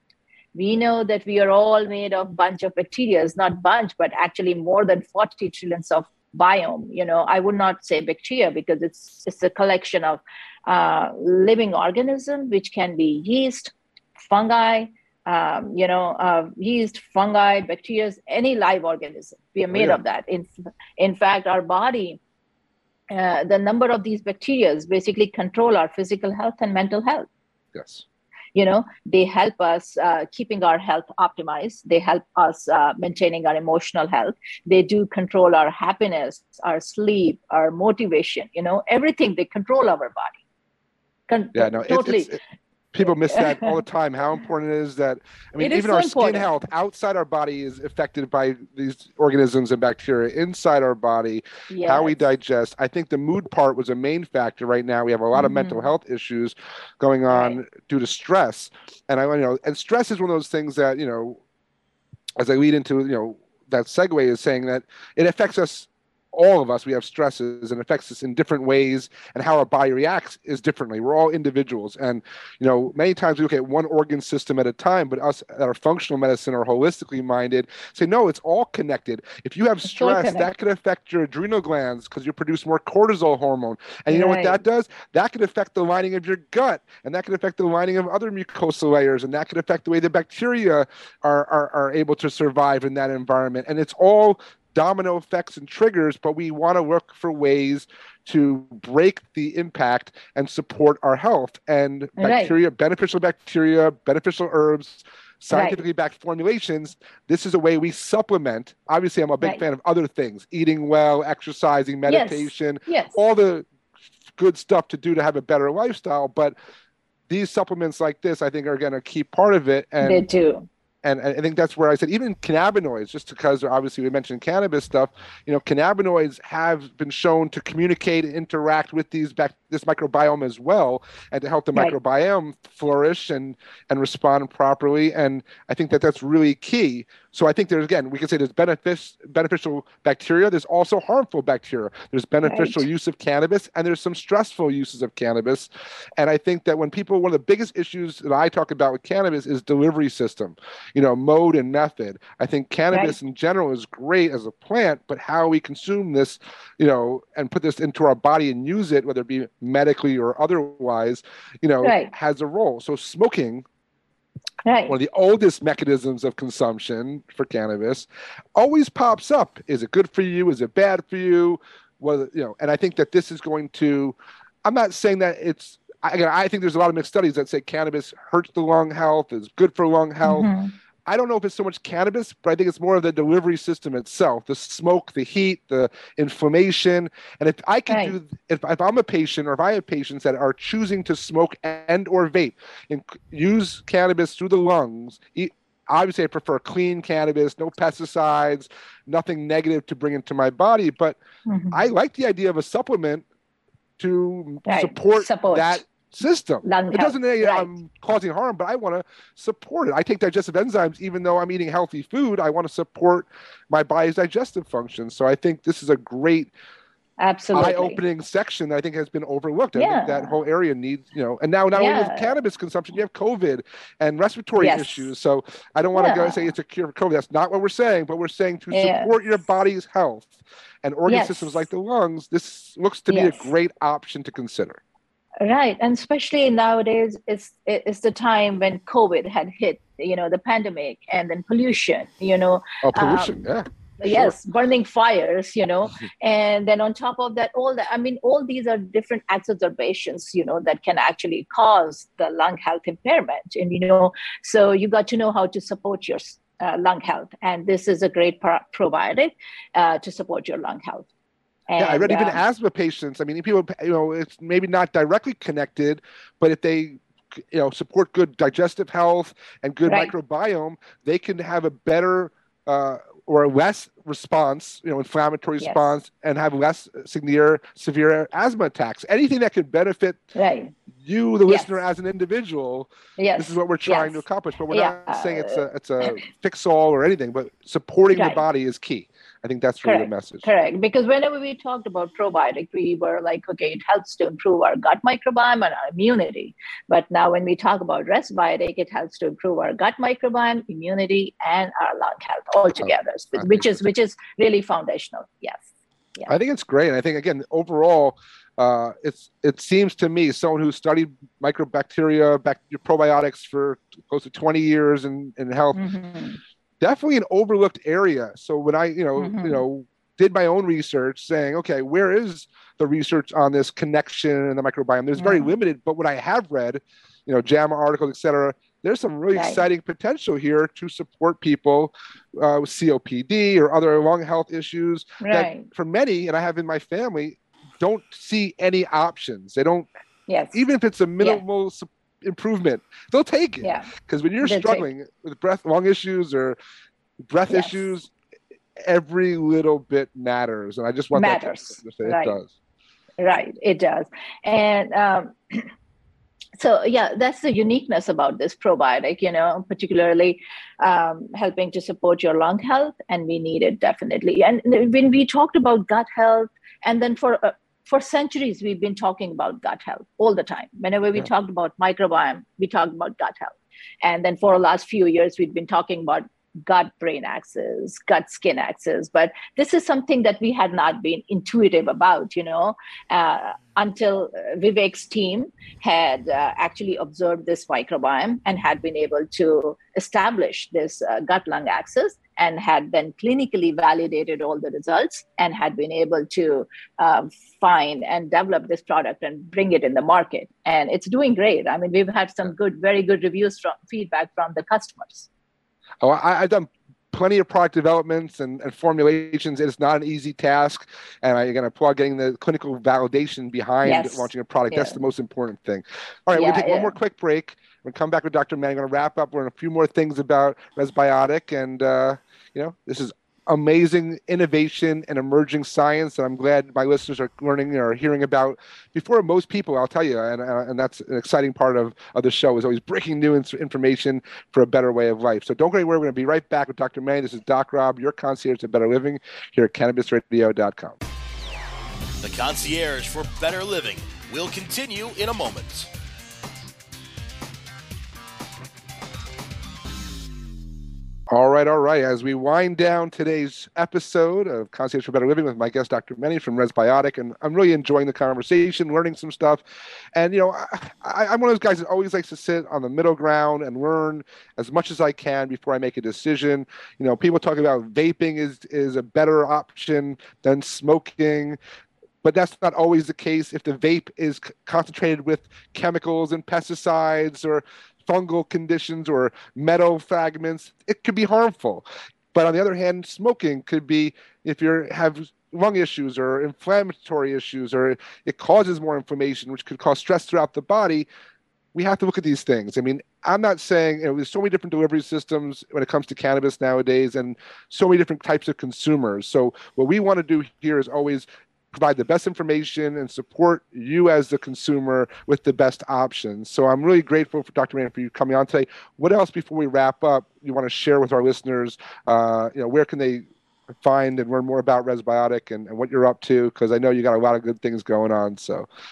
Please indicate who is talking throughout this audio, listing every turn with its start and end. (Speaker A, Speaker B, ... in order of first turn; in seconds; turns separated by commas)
Speaker A: 0.5-22.2, Speaker B: 19.7-20.0, Speaker A: 23.1-27.3, Speaker B: 27.7-28.0, Speaker A: 28.5-40.4, Speaker A: 41.3-42.4, Speaker B: 41.5-42.4, Speaker B: 42.9-61.4, Speaker A: 43.0-43.8, Speaker A: 45.6-46.5, Speaker A: 51.7-52.2, Speaker A: 55.3-55.8, Speaker A: 57.3-57.6, Speaker B: 62.4-113.7, Speaker A: 79.8-80.5, Speaker A: 84.1-84.6, Speaker A: 102.2-102.5, Speaker A: 105.5-105.8, Speaker A: 112.1-113.2, Speaker B: 114.4-116.5, Speaker B: 117.3-120.2, Speaker A: 120.0-120.7, Speaker B: 121.0-163.6, Speaker A: 142.4-142.8, Speaker A: 161.8-162.1, Speaker A: 164.7-164.9, Speaker B: 164.9-180.5, Speaker A: 180.2-180.7, Speaker B: 181.1-201.2, Speaker A: 187.9-188.1, Speaker A: 201.5-201.8, Speaker B: 201.7-203.2, Speaker B: 204.0-216.5, Speaker A: 204.7-205.8, Speaker A: 206.6-207.7, Speaker A: 217.2-218.0, Speaker B: 217.5-234.8, Speaker A: 219.7-220.3, Speaker A: 221.7-222.3, Speaker A: 224.6-225.1, Speaker A: 225.9-226.5, Speaker A: 228.7-229.1, Speaker A: 231.1-231.6, Speaker A: 233.1-233.5, Speaker A: 235.4-243.3, Speaker B: 242.8-244.3, Speaker A: 244.0-261.1, Speaker A: 261.7-262.4, Speaker B: 261.8-280.2, Speaker A: 269.9-270.1, Speaker A: 275.6-275.9, Speaker A: 280.3-280.7, Speaker B: 280.9-290.4, Speaker A: 281.4-281.8, Speaker A: 283.2-284.2, Speaker A: 284.7-286.2, Speaker A: 288.1-288.4, Speaker A: 289.8-306.3, Speaker B: 302.8-303.7, Speaker B: 306.3-315.8, Speaker A: 315.7-316.4, Speaker B: 316.8-339.9, Speaker A: 319.2-319.6, Speaker A: 325.2-325.5, Speaker A: 329.3-329.6, Speaker A: 335.2-335.6, Speaker A: 340.3-340.6, Speaker B: 340.5-346.6, Speaker A: 343.6-343.9, Speaker A: 344.4-344.9, Speaker B: 347.3-348.1, Speaker A: 347.5-347.9, Speaker B: 348.8-352.5, Speaker A: 351.1-352.4, Speaker A: 353.2-355.7, Speaker A: 356.6-405.3, Speaker B: 406.0-441.0, Speaker A: 413.8-415.0, Speaker A: 416.3-416.9, Speaker C: 442.2-445.9, Speaker B: 451.3-459.6, Speaker B: 460.1-471.6, Speaker B: 472.2-491.1, Speaker B: 491.7-513.2, Speaker B: 513.8-518.6